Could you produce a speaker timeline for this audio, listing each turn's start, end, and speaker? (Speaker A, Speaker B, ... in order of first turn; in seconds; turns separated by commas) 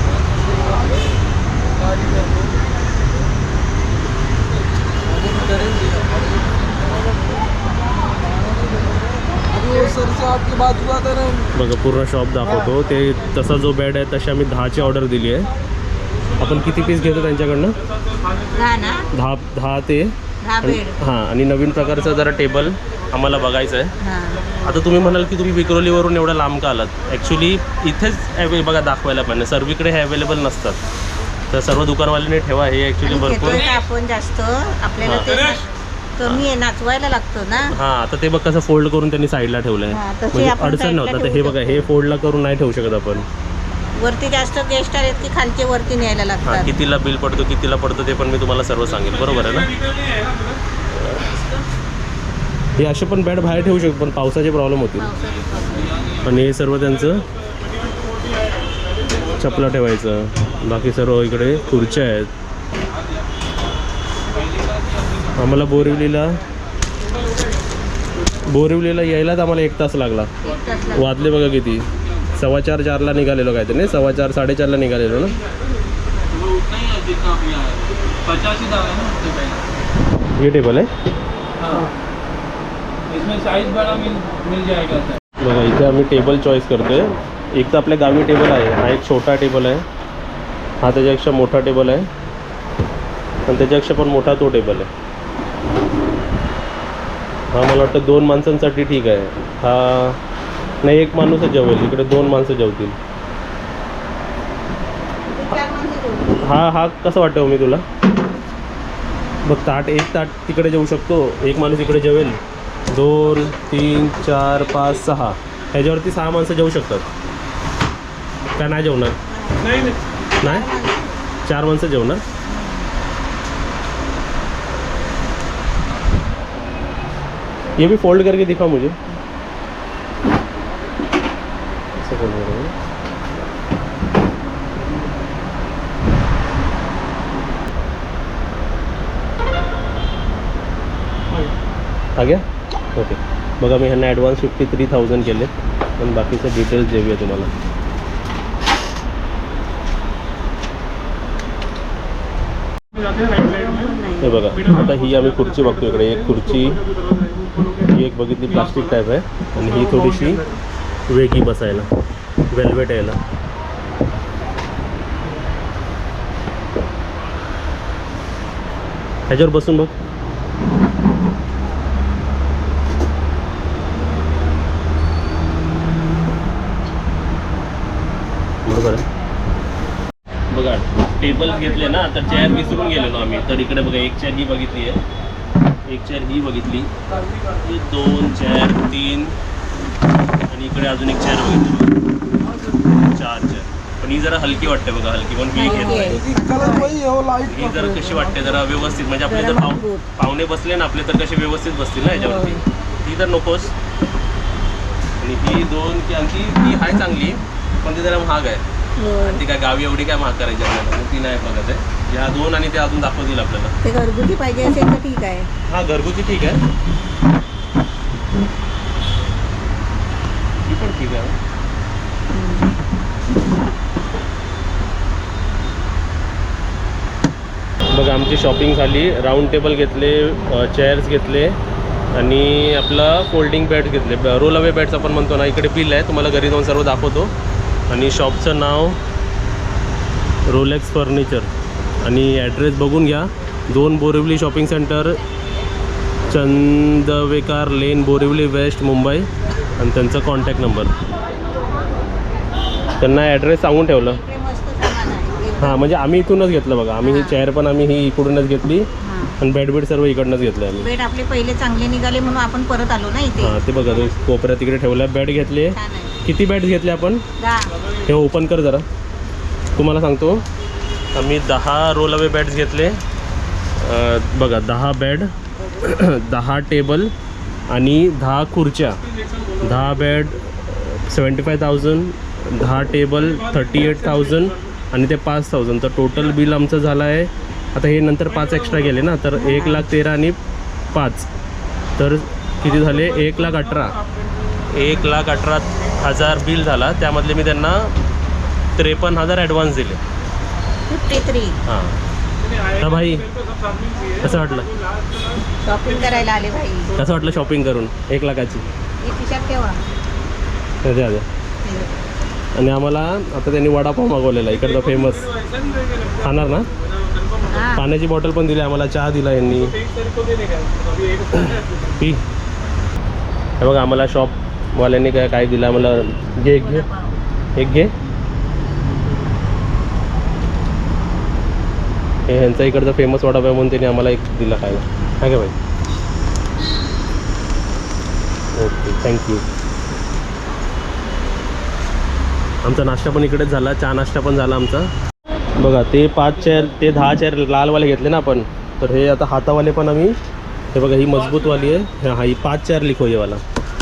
Speaker A: 11.5-15.5, Speaker A: 16.4-17.8, Speaker B: 18.5-19.1, Speaker A: 19.1-23.9, Speaker B: 20.4-21.0, Speaker B: 24.0-24.6, Speaker A: 24.6-30.8, Speaker A: 31.5-33.7, Speaker B: 33.0-37.7, Speaker A: 35.0-35.4, Speaker A: 37.7-43.3, Speaker B: 39.9-41.9, Speaker B: 44.0-46.7, Speaker A: 46.4-49.7, Speaker A: 50.9-51.4, Speaker A: 52.8-55.1, Speaker B: 55.0-56.2, Speaker A: 56.2-57.2, Speaker A: 59.3-62.3, Speaker A: 65.3-66.4, Speaker A: 68.4-70.3, Speaker B: 70.4-71.2, Speaker A: 70.9-75.4, Speaker C: 76.4-79.6, Speaker A: 80.3-80.9, Speaker C: 83.1-85.2, Speaker A: 85.4-89.8, Speaker A: 90.8-92.1, Speaker A: 93.5-94.9, Speaker A: 97.5-100.2, Speaker A: 100.8-103.0, Speaker B: 105.3-106.5, Speaker A: 106.4-107.8, Speaker A: 109.4-112.4, Speaker A: 112.9-117.1, Speaker A: 118.5-119.2, Speaker B: 119.3-121.2, Speaker A: 120.4-120.7, Speaker A: 121.4-122.2, Speaker B: 122.5-122.9, Speaker A: 127.8-129.0, Speaker A: 131.9-132.7, Speaker A: 142.2-147.5, Speaker B: 153.2-154.6, Speaker A: 154.2-156.8, Speaker A: 157.9-160.4, Speaker A: 161.1-161.9, Speaker A: 162.5-163.2, Speaker A: 169.3-169.9, Speaker A: 178.7-179.1, Speaker A: 180.5-185.0, Speaker A: 185.8-189.3, Speaker A: 190.5-191.9, Speaker A: 192.9-196.2, Speaker B: 195.5-197.2, Speaker A: 197.4-203.7, Speaker B: 199.2-200.1, Speaker B: 202.1-202.6, Speaker A: 205.2-208.6, Speaker B: 209.0-209.4, Speaker A: 209.2-213.8, Speaker B: 213.8-215.5, Speaker A: 215.7-216.6, Speaker A: 220.6-221.3, Speaker B: 222.3-222.7, Speaker A: 227.9-231.6, Speaker A: 232.1-237.3, Speaker A: 237.9-239.0, Speaker A: 240.4-241.5, Speaker A: 242.0-245.2, Speaker A: 246.3-250.9, Speaker A: 253.0-254.2, Speaker B: 254.0-255.9, Speaker A: 255.6-258.9, Speaker B: 257.0-257.4, Speaker B: 259.0-259.4, Speaker A: 259.4-260.9, Speaker B: 260.8-263.6, Speaker A: 263.4-267.2, Speaker B: 265.6-266.2, Speaker B: 267.4-267.8, Speaker A: 268.0-268.9, Speaker A: 269.8-270.4, Speaker A: 271.1-273.0, Speaker A: 273.8-277.1, Speaker A: 277.7-279.0, Speaker A: 279.6-290.4, Speaker B: 289.3-289.8, Speaker A: 290.9-291.3, Speaker A: 292.0-294.0, Speaker A: 294.7-297.9, Speaker A: 298.8-300.0, Speaker B: 300.9-301.6, Speaker A: 301.6-302.0, Speaker A: 302.7-303.3, Speaker B: 303.8-304.2, Speaker A: 304.2-304.7, Speaker B: 305.6-307.0, Speaker A: 306.9-308.7, Speaker B: 309.0-309.8, Speaker A: 310.8-311.2, Speaker B: 311.6-312.0, Speaker A: 312.5-315.3, Speaker A: 316.2-316.7, Speaker B: 317.5-317.8, Speaker A: 317.7-319.8, Speaker A: 321.2-322.2, Speaker A: 323.6-326.9, Speaker B: 326.6-327.2, Speaker A: 327.6-327.9, Speaker A: 332.3-335.6, Speaker A: 338.5-339.4, Speaker A: 342.6-344.9, Speaker A: 345.6-350.1, Speaker A: 350.7-353.4